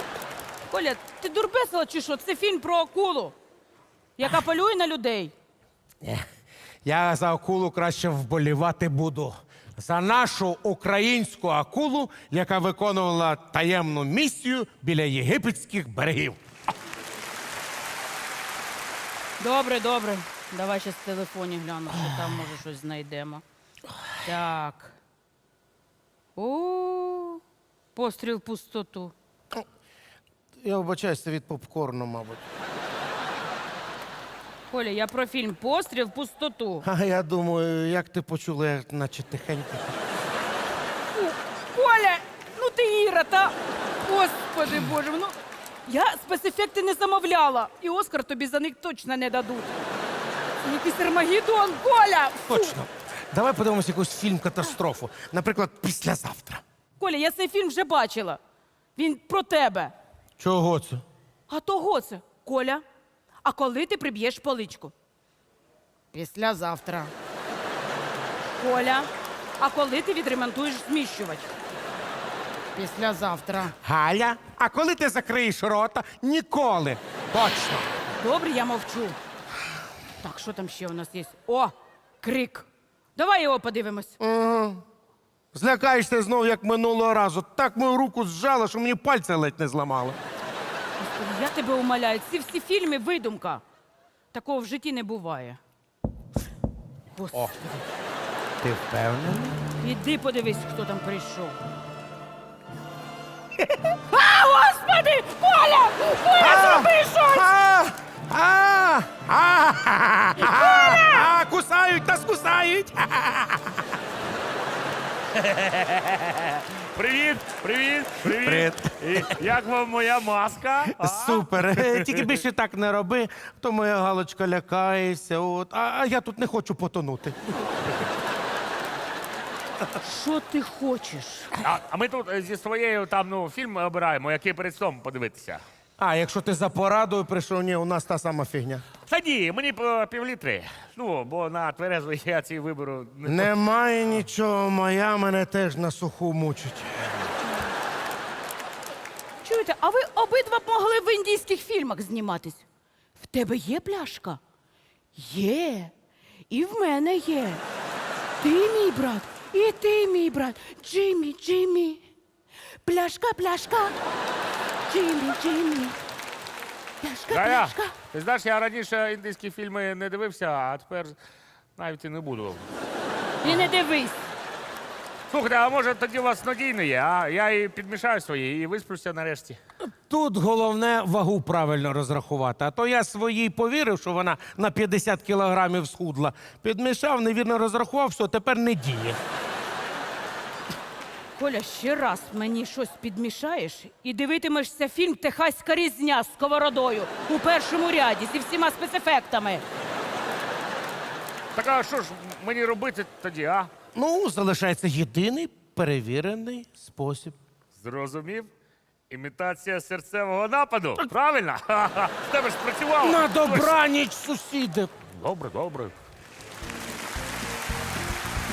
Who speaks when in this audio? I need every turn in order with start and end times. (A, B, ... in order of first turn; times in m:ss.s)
0:00.7-0:03.4 A
0:04.2-0:05.3 A
0:06.8-0:16.4 B
0:19.4-0:23.4 A
0:24.2-0:25.0 A
0:26.4-0:27.4 A
0:28.0-0:29.1 A
0:30.6-0:32.5 B
0:34.7-0:36.9 A
0:36.8-0:40.0 B
0:41.1-0:43.5 A
0:44.0-0:45.3 A
0:45.9-0:49.7 A
0:50.6-0:52.8 A
0:52.5-0:56.6 B
0:57.0-0:58.4 A
0:59.0-0:59.9 A
1:00.4-1:01.0 B
1:01.5-1:02.8 A
1:03.4-1:04.9 A
1:06.1-1:07.1 A
1:08.6-1:11.5 A
1:12.8-1:13.8 A
1:13.8-1:17.9 B
1:18.2-1:19.2 A
1:20.2-1:24.1 A
1:24.2-1:24.8 B
1:25.5-1:30.2 B
1:31.0-1:33.6 A
1:34.3-1:35.6 A
1:37.1-1:37.6 A
1:37.3-1:37.8 B
1:38.6-1:39.6 B
1:39.8-1:41.6 A
1:44.1-1:47.5 A
1:46.4-1:53.8 B
1:50.4-1:51.2 A
1:55.4-2:02.3 C
1:58.3-1:59.3 B
2:01.0-2:07.6 B
2:10.0-2:11.5 A
2:11.6-2:15.6 C
2:16.0-2:18.8 B
2:19.1-2:23.5 C
2:23.2-2:27.3 B
2:29.4-2:32.6 A
2:33.2-2:34.4 A
2:35.1-2:35.9 A
2:36.5-2:37.6 A
2:38.4-2:42.0 A
2:42.8-2:44.0 A
2:44.9-2:46.0 A
2:47.0-2:48.0 A
2:47.3-2:51.2 C
2:51.8-2:52.7 C
2:53.4-2:54.2 A
2:55.3-2:59.6 C
2:59.9-3:09.2 B
3:11.4-3:19.6 A
3:21.6-3:23.7 C
3:23.9-3:27.4 B
3:27.8-3:28.5 C
3:29.1-3:33.8 C
3:33.0-3:34.9 B
3:35.1-3:35.9 C